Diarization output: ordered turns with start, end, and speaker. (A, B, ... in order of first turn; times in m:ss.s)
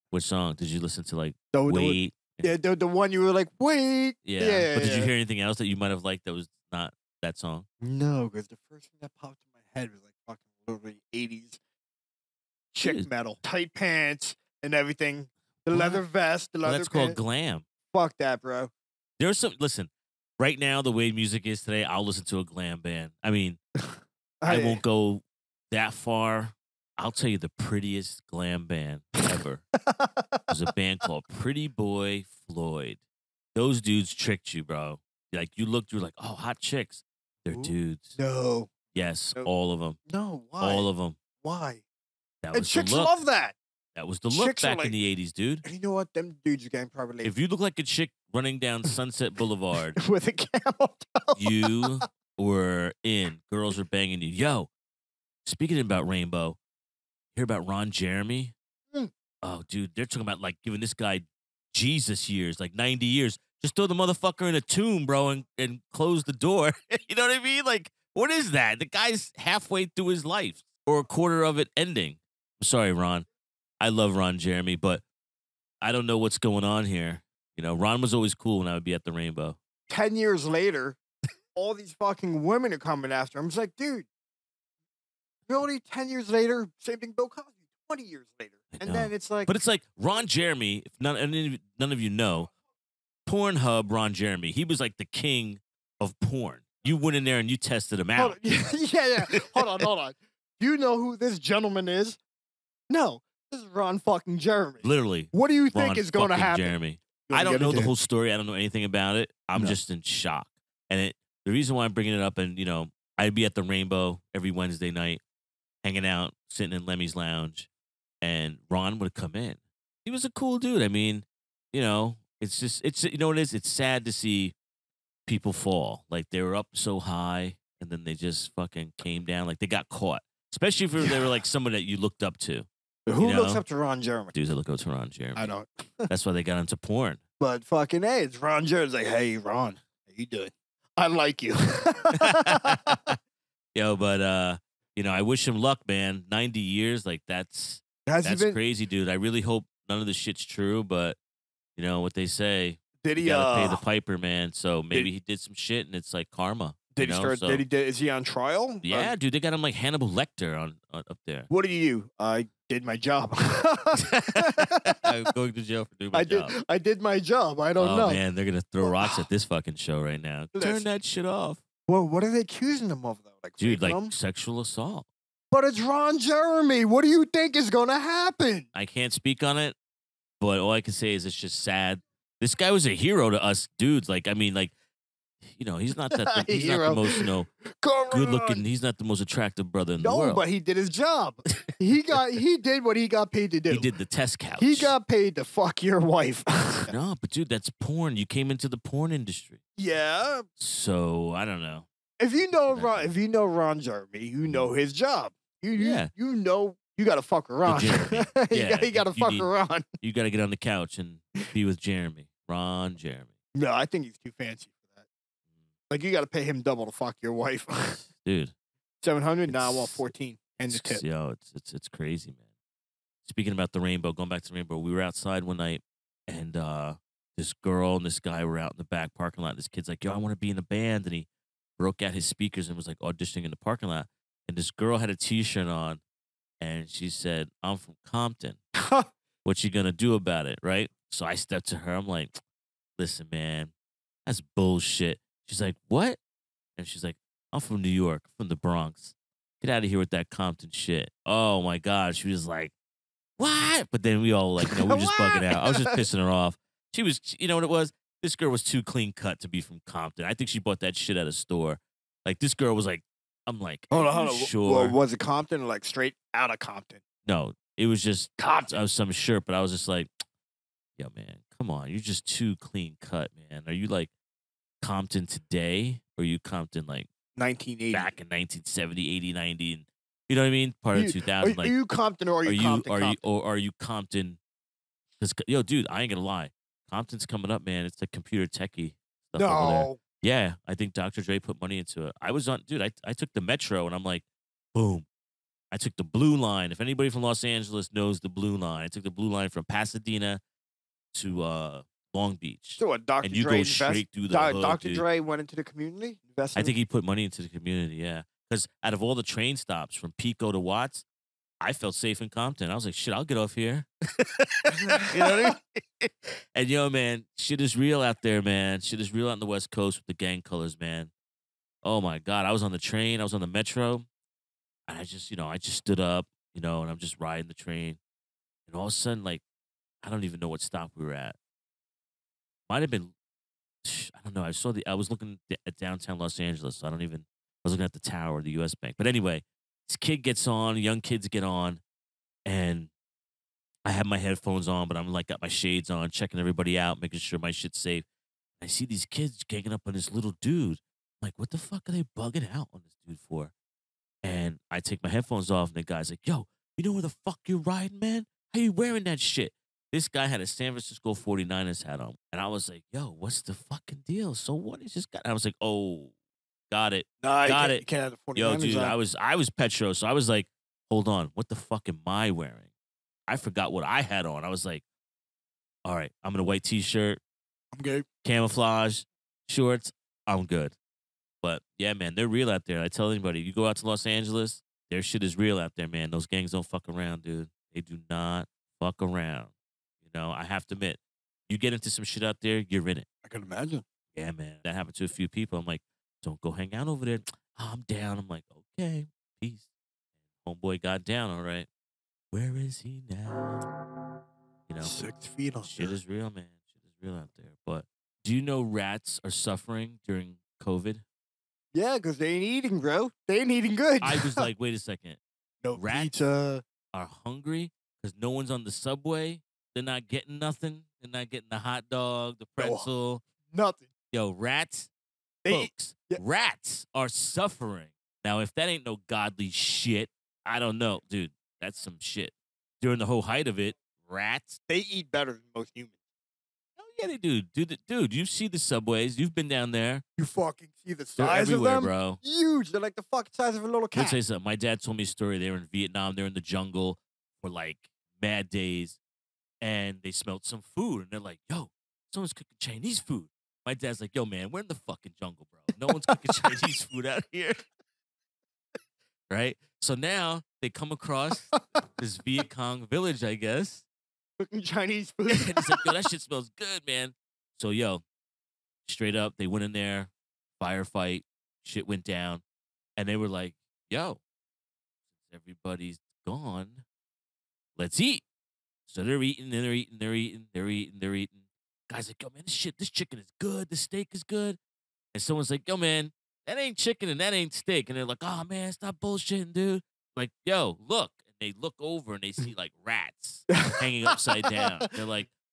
0:00.1-0:02.6 A
0:01.5-0:05.1 B
0:04.2-0:07.7 A
0:07.8-0:11.6 B
0:12.7-0:17.2 B
0:12.8-0:13.1 A
0:15.7-0:16.0 A
0:16.6-0:17.6 A
0:17.9-0:18.7 B
0:19.2-0:23.6 A
0:23.8-0:24.8 B
0:24.4-0:29.6 A
0:29.8-0:30.5 B
0:30.5-0:33.0 A
0:33.5-0:38.2 A
0:37.5-0:38.7 B
0:38.9-0:40.0 A
0:40.1-0:40.9 B
0:40.6-0:41.2 A
0:41.4-0:41.8 B
0:42.4-0:43.2 A
0:42.5-0:43.6 B
0:43.9-0:45.6 A
0:44.3-0:45.0 B
0:45.6-0:47.3 B
0:47.2-0:50.0 A
0:50.0-0:52.0 B
0:51.4-0:54.7 A
0:55.4-0:56.6 A
0:57.3-0:58.5 A
0:59.4-1:13.2 A
1:13.8-1:15.0 A
1:15.8-1:19.6 A
1:19.9-1:21.0 B
1:21.5-1:24.1 B
1:25.5-1:29.5 B
1:28.7-1:32.5 A
1:33.2-1:38.7 A
1:38.2-1:42.2 B
1:39.3-1:39.8 A
1:42.9-1:47.9 B
1:44.8-1:55.2 A
1:55.8-1:57.7 A
1:58.2-2:04.5 A
2:05.2-2:12.7 A
2:11.0-2:11.4 B
2:13.1-2:14.4 B
2:13.2-2:13.6 A
2:14.3-2:15.4 A
2:15.3-2:16.1 B
2:16.1-2:17.2 A
2:17.4-2:22.9 B
2:22.2-2:23.2 A
2:23.7-2:31.2 A
2:28.0-2:28.6 B
2:31.8-2:37.6 A
2:33.0-2:33.8 B
2:36.9-2:39.1 B
2:38.8-2:41.5 A
2:41.5-2:45.0 B
2:43.9-2:46.5 A
2:46.1-2:48.2 B
2:47.8-2:51.6 A
2:48.8-2:49.2 B
2:50.5-2:50.9 B
2:51.9-2:54.1 B
2:53.6-2:55.0 A
2:55.5-2:58.7 B
2:58.7-2:59.8 A
3:00.4-3:04.7 A
3:05.4-3:07.5 A
3:06.1-3:08.6 B
3:08.1-3:10.4 A
3:10.0-3:13.9 B
3:13.7-3:14.9 A
3:14.6-3:16.9 B
3:16.8-3:19.6 A
3:19.8-3:20.4 B
3:20.6-3:21.9 A
3:22.2-3:29.9 B
3:22.7-3:23.1 A
3:25.7-3:26.1 A
3:27.6-3:29.5 A
3:30.0-3:33.3 A
3:33.5-3:35.0 B
3:35.9-3:38.0 B
3:38.0-3:38.5 A
3:39.0-3:41.0 B
3:39.5-3:40.0 A
3:40.7-3:42.4 A
3:43.2-3:51.3 A
3:51.8-3:56.0 A
3:56.6-3:58.6 A
3:58.8-3:59.1 B
3:59.4-4:02.3 A
4:03.0-4:03.7 A
4:04.2-4:06.2 A
4:06.8-4:12.7 A
4:13.4-4:25.0 A
4:14.6-4:16.0 B
4:23.9-4:27.0 B
4:27.2-4:30.1 A
4:28.4-4:28.8 B
4:31.0-4:34.1 A
4:34.8-4:37.1 A
4:37.3-4:38.1 B
4:37.9-4:41.8 A
4:40.9-4:43.2 B
4:42.4-4:44.4 A
4:45.2-4:55.1 A
4:49.4-4:50.0 B
4:55.7-5:00.4 A
5:01.1-5:05.0 A
5:02.8-5:06.8 B
5:06.5-5:11.0 A
5:11.6-5:21.1 A
5:14.8-5:15.5 B
5:21.8-5:24.1 A
5:24.9-5:28.0 A
5:28.7-5:29.4 A
5:30.0-5:31.4 A
5:32.7-5:33.1 A
5:33.8-5:41.8 A
5:42.4-5:42.9 A
5:43.8-5:48.0 A
5:48.6-5:53.5 A
5:54.2-6:06.1 A
6:06.7-6:12.7 A
6:07.2-6:09.0 B
6:13.3-6:14.8 A
6:15.8-6:17.2 A
6:17.7-6:18.0 B
6:18.2-6:20.8 A
6:21.4-6:33.0 A
6:33.2-6:33.8 B
6:34.1-6:39.7 A
6:40.4-6:41.7 A
6:42.3-6:43.6 A
6:44.7-6:45.0 A
6:44.8-6:46.0 B
6:45.6-6:51.0 A
6:51.7-6:54.5 B
6:54.0-6:55.2 A
6:55.6-6:56.6 B
6:55.7-6:56.2 A
6:56.9-7:03.2 A
7:02.6-7:02.9 B
7:03.5-7:03.9 B
7:04.1-7:04.9 A
7:05.4-7:06.2 B
7:05.5-7:14.6 A
7:14.7-7:15.9 B
7:16.8-7:20.0 A
7:20.2-7:24.2 B
7:21.2-7:22.2 A
7:23.9-7:29.0 A
7:29.6-7:37.6 A
7:39.3-7:43.9 A
7:44.4-7:45.9 B
7:45.3-7:48.0 A
7:48.8-7:52.4 A
7:53.0-7:54.2 A
7:55.2-7:56.8 A
7:57.8-7:58.2 A
7:58.9-8:04.6 A
8:05.1-8:15.3 A
8:13.5-8:14.5 B